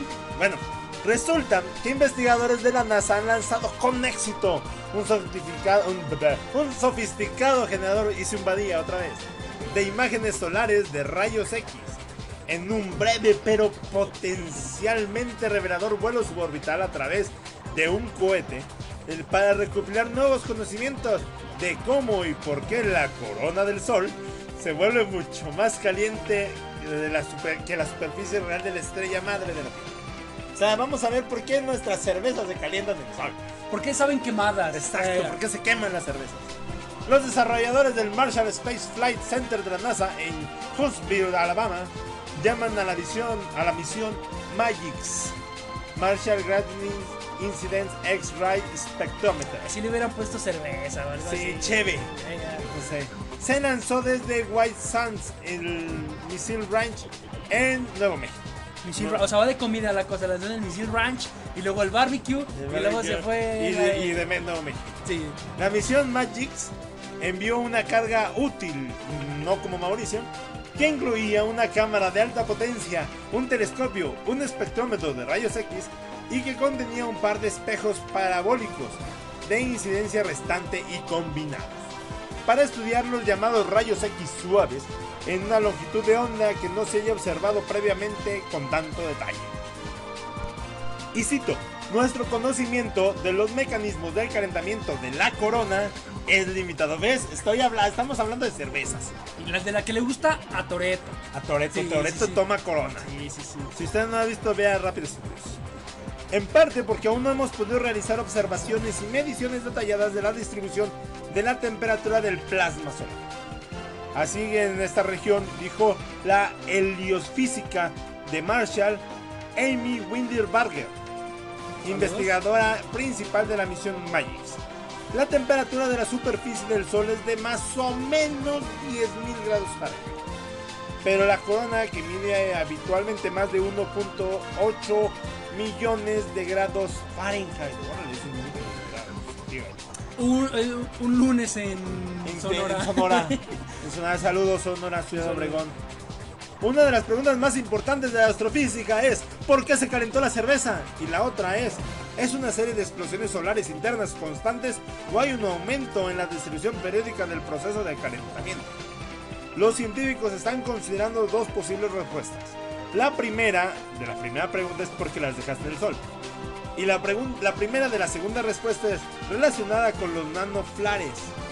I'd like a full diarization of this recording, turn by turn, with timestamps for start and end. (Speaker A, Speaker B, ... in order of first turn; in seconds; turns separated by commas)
Speaker A: 0.3-29.9, Speaker A: 30.6-33.4, Speaker B: 33.7-35.4, Speaker A: 34.7-36.5, Speaker A: 37.1-45.4, Speaker A: 46.0-49.7, Speaker B: 49.5-52.7, Speaker A: 51.1-52.1, Speaker A: 52.7-58.4, Speaker B: 58.8-64.3, Speaker A: 59.0-59.2, Speaker A: 62.5-65.0, Speaker B: 65.0-65.4, Speaker A: 65.5-81.9, Speaker A: 82.5-89.5, Speaker A: 91.1-99.2, Speaker B: 99.4-103.7, Speaker A: 101.3-103.1, Speaker A: 103.7-105.6, Speaker A: 106.3-113.2, Speaker A: 114.1-119.0, Speaker A: 119.6-121.0, Speaker A: 121.8-124.6, Speaker B: 121.9-122.4, Speaker A: 125.1-130.2, Speaker A: 131.0-139.8, Speaker B: 140.2-143.6, Speaker A: 142.2-145.8, Speaker B: 145.2-145.6, Speaker A: 146.6-158.8, Speaker A: 159.6-166.0, Speaker A: 166.8-171.3